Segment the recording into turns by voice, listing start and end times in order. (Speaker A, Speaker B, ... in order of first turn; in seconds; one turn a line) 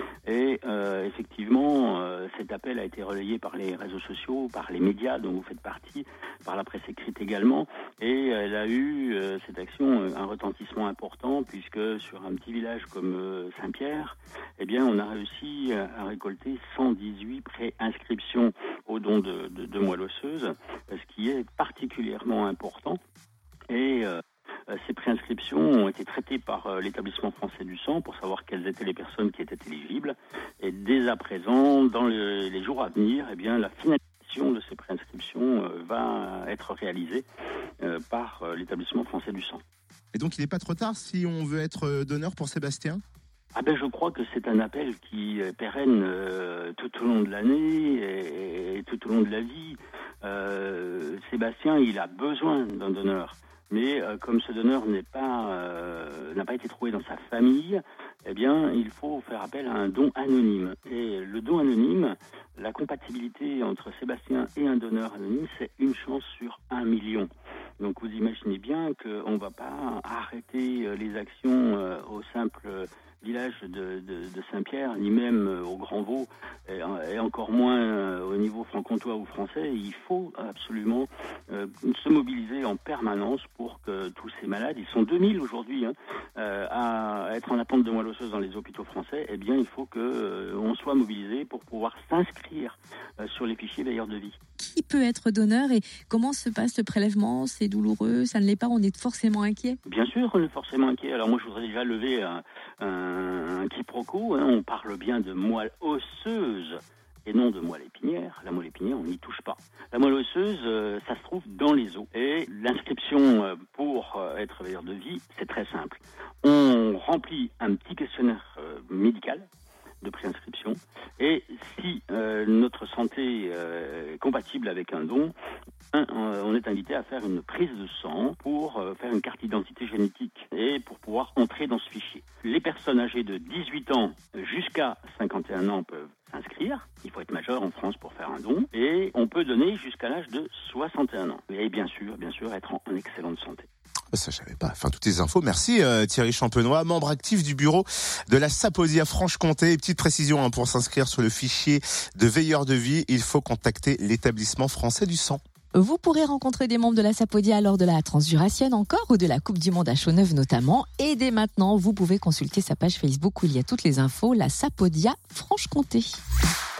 Speaker A: 0.2-23.0
Speaker A: 23.7-37.2
Speaker A: 37.8-39.6
Speaker B: 40.1-43.0
Speaker A: 43.5-94.4
Speaker C: 94.6-99.8
Speaker A: 99.8-119.5
Speaker A: 120.0-125.3
Speaker A: 125.9-143.7
Speaker B: 144.1-155.4
Speaker C: 155.7-166.1